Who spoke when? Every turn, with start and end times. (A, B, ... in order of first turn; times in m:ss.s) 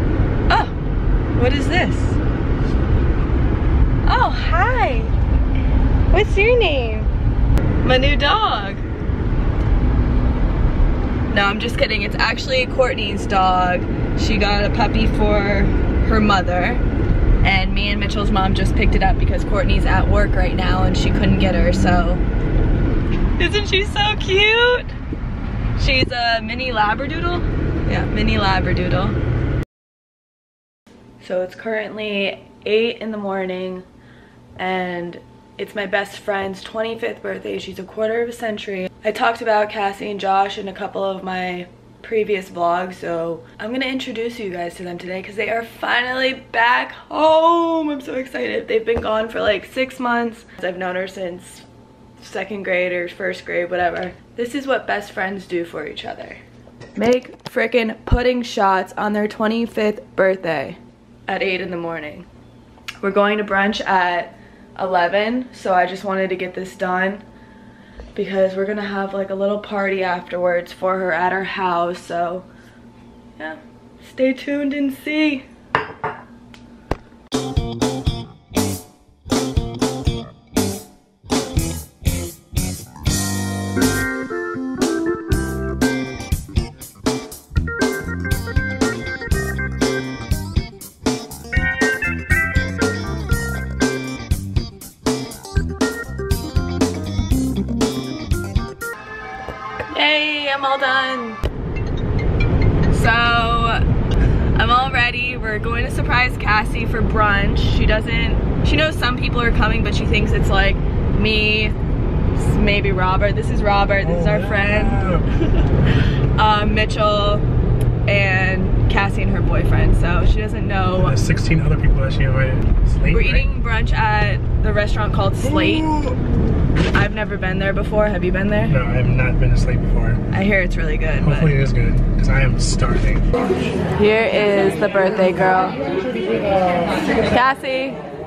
0:00.5-0:00.7 A
0:01.3-0:02.2 A
0:04.0-0:05.1 A
0:06.1-0:07.1 A
0:07.8-0:08.8 A
0:11.3-0:16.8 A
0:17.4-0:22.2 A
0:23.4-0:24.9 A
0:25.8-0:29.2 A
0:31.2-0:33.8 A
0:34.6-0:51.6 A
0:52.2-0:56.4 A
0:57.0-1:02.2 A
1:03.0-1:07.2 A
1:08.1-1:12.5 A
1:13.4-1:15.4 A
1:39.9-1:41.4 A
1:42.9-1:43.8 A
1:44.6-1:51.7 A
1:52.4-1:55.0 A
1:54.0-1:55.3 B
1:56.4-1:57.4 A
1:58.0-2:01.2 A
2:00.9-2:03.5 B
2:03.1-2:06.1 A
2:06.9-2:08.8 A
2:08.6-2:10.2 B
2:10.3-2:11.6 A
2:11.2-2:13.3 B
2:14.0-2:15.8 A
2:17.2-2:18.0 A